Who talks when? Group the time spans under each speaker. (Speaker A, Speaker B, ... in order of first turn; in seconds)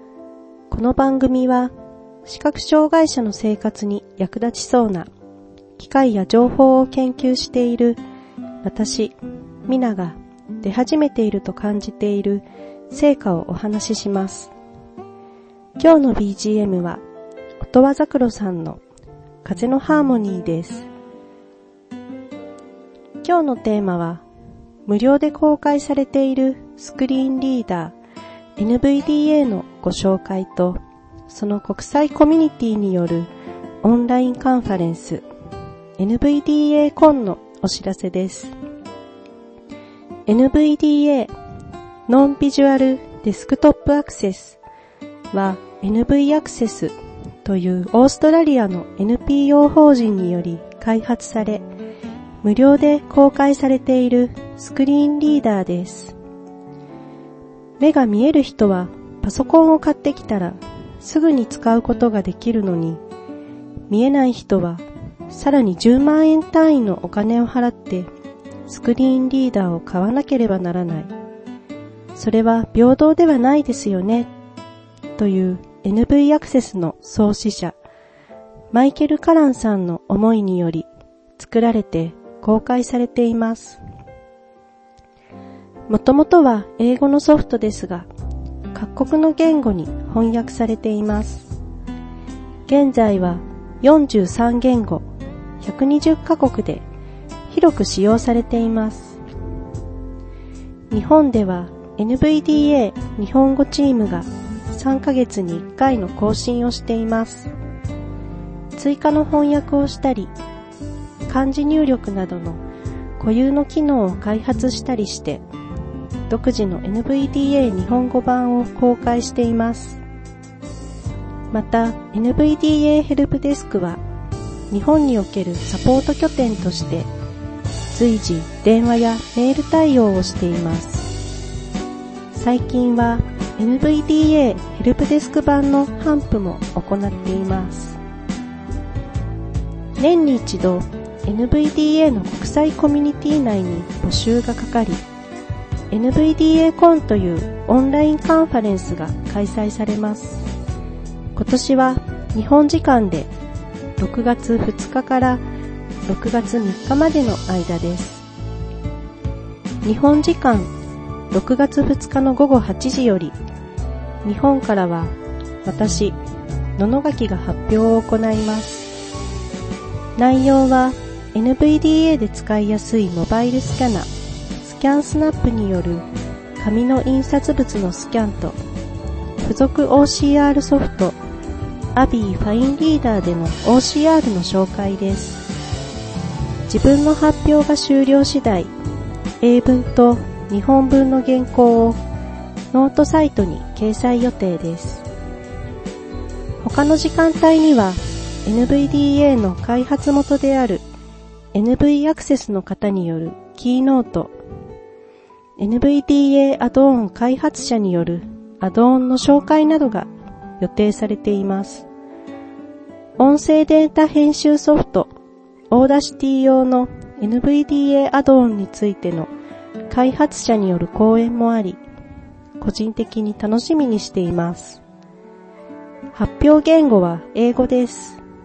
Speaker A: 0.7-1.7, 2.2-5.1, 5.8-8.0, 8.6-9.2, 9.7-14.5, 15.8-17.0, 17.6-18.8, 19.4-20.9, 23.2-24.2, 24.9-27.9, 28.6-33.3, 33.8-35.2, 36.0-38.5, 40.3-41.3, 42.1-44.6, 45.3-51.6, 52.4-56.2, 57.8-63.0, 63.9-68.1, 68.7-71.1, 72.2-74.3, 75.2-77.8, 78.7-83.8, 85.9-88.1, 88.7-91.5, 92.7-95.0, 95.6-96.8, 97.5-99.2, 100.9-107.5, 108.8-110.3, 111.3-112.6, 113.2-115.5, 116.3-120.0, 121.5-124.0, 124.7-127.1, 127.9-131.1, 132.3-138.0, 140.0-145.0, 145.9-150.5, 151.3-153.3, 154.0-155.4, 156.1-158.3, 159.8-160.7, 161.3-163.3, 164.2-166.2, 166.8-168.9, 170.2-174.1, 174.6-176.1, 176.6-178.6, 179.4-181.2, 181.9-185.5, 186.7-188.7, 189.4-192.0, 192.7-195.1, 196.6-200.8, 201.5-204.3, 205.6-211.9, 213.2-215.1, 215.7-219.3, 219.9-221.8, 222.6-224.8, 226.1-228.2